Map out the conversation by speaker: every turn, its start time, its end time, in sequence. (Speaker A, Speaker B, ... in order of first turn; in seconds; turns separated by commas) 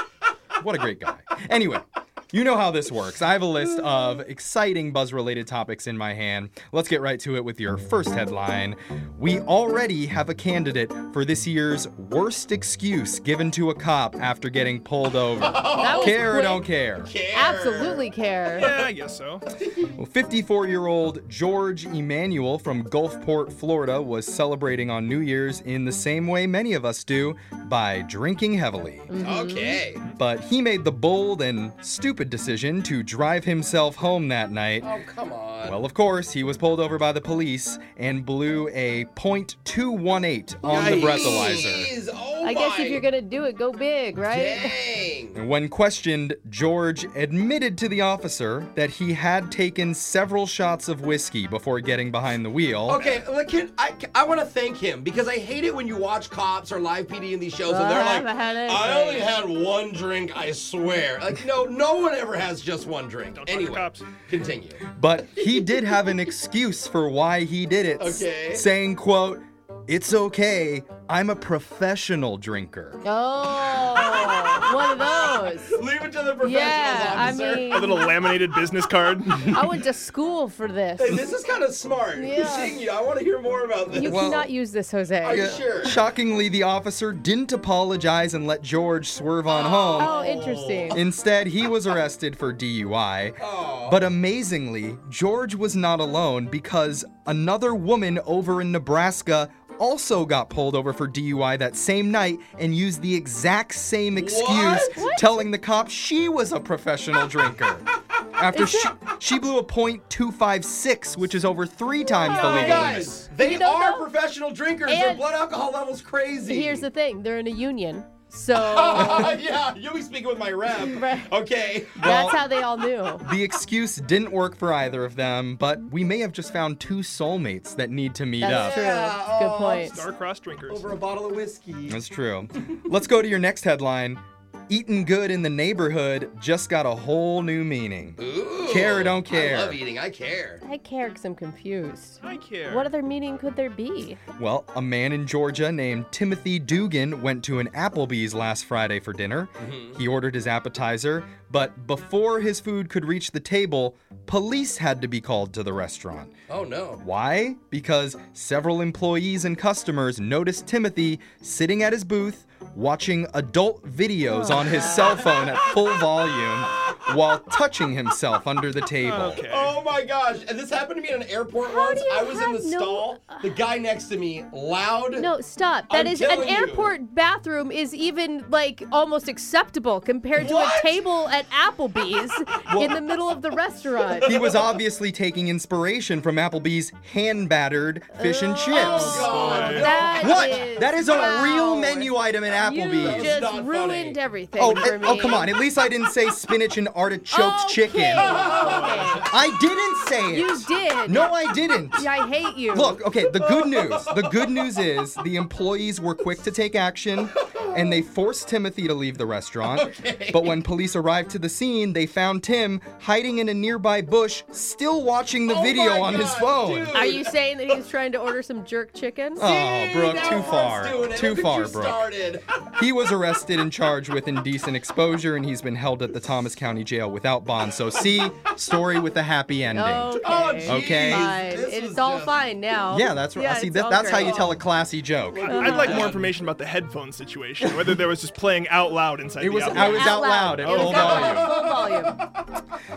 Speaker A: 0.6-17.1, Speaker B: 15.4-16.2, Speaker C: 15.8-16.7, Speaker B: 17.0-18.9, Speaker C: 17.3-18.7, Speaker D: 18.5-19.5, Speaker A: 20.0-29.1, Speaker C: 29.1-29.8, Speaker B: 29.2-30.0, Speaker A: 30.2-34.9, Speaker B: 34.8-35.8, Speaker A: 35.6-41.9, Speaker B: 40.6-43.0, Speaker C: 41.0-41.7, Speaker C: 42.4-44.8, Speaker B: 44.2-45.4, Speaker A: 45.4-53.2, Speaker B: 52.9-64.8, Speaker C: 57.7-59.4, Speaker D: 63.3-64.1, Speaker A: 64.9-73.0, Speaker B: 65.3-66.0, Speaker B: 68.0-68.7, Speaker C: 73.0-75.8, Speaker B: 74.2-77.8, Speaker C: 76.4-78.1, Speaker D: 77.7-79.7, Speaker C: 79.5-81.3, Speaker B: 81.0-84.3, Speaker C: 82.2-82.8, Speaker C: 83.9-85.6, Speaker A: 84.0-84.5, Speaker B: 85.2-86.0, Speaker A: 85.3-90.1, Speaker B: 89.5-91.0, Speaker C: 90.0-91.0, Speaker A: 90.9-113.2, Speaker B: 93.4-94.0, Speaker B: 104.2-105.0, Speaker C: 104.9-105.3, Speaker C: 108.5-108.9, Speaker C: 112.1-114.1, Speaker B: 112.2-116.9, Speaker C: 114.9-115.3, Speaker C: 116.5-119.3, Speaker B: 118.5-122.1, Speaker C: 120.8-121.3, Speaker A: 122.0-122.4, Speaker C: 122.0-123.2, Speaker A: 123.2-128.9, Speaker C: 128.4-130.0, Speaker B: 128.4-130.0, Speaker D: 129.8-130.9, Speaker B: 130.7-132.0, Speaker A: 131.9-139.8, Speaker B: 138.2-140.6, Speaker C: 140.6-144.2, Speaker D: 142.2-142.9, Speaker A: 144.4-156.4, Speaker B: 149.6-150.0, Speaker B: 156.5-157.0, Speaker A: 157.0-169.4, Speaker C: 164.3-165.2, Speaker B: 164.9-165.5, Speaker D: 169.0-169.7, Speaker B: 169.4-175.3, Speaker C: 171.6-173.5, Speaker C: 175.2-184.5, Speaker B: 175.9-176.9, Speaker B: 180.4-181.1, Speaker A: 182.7-183.0, Speaker A: 184.2-193.3, Speaker C: 188.1-195.5, Speaker B: 188.7-190.8, Speaker D: 189.1-190.0, Speaker B: 193.0-194.2, Speaker A: 194.6-198.6, Speaker C: 197.3-199.3, Speaker B: 198.1-199.3, Speaker D: 198.6-199.1, Speaker A: 199.3-202.1, Speaker C: 200.3-201.4, Speaker C: 201.9-203.0, Speaker A: 202.7-217.1, Speaker B: 203.3-204.6, Speaker B: 207.4-208.0, Speaker B: 209.7-210.5, Speaker B: 215.4-217.3, Speaker C: 216.9-219.4, Speaker A: 219.4-222.0, Speaker B: 219.4-222.5, Speaker A: 222.8-231.3, Speaker C: 229.7-234.6, Speaker B: 230.2-232.4, Speaker A: 232.9-235.5, Speaker B: 234.1-234.5, Speaker B: 235.3-236.3, Speaker C: 235.5-236.1, Speaker D: 235.5-241.4, Speaker A: 239.4-241.5, Speaker C: 239.7-242.2, Speaker B: 240.9-242.3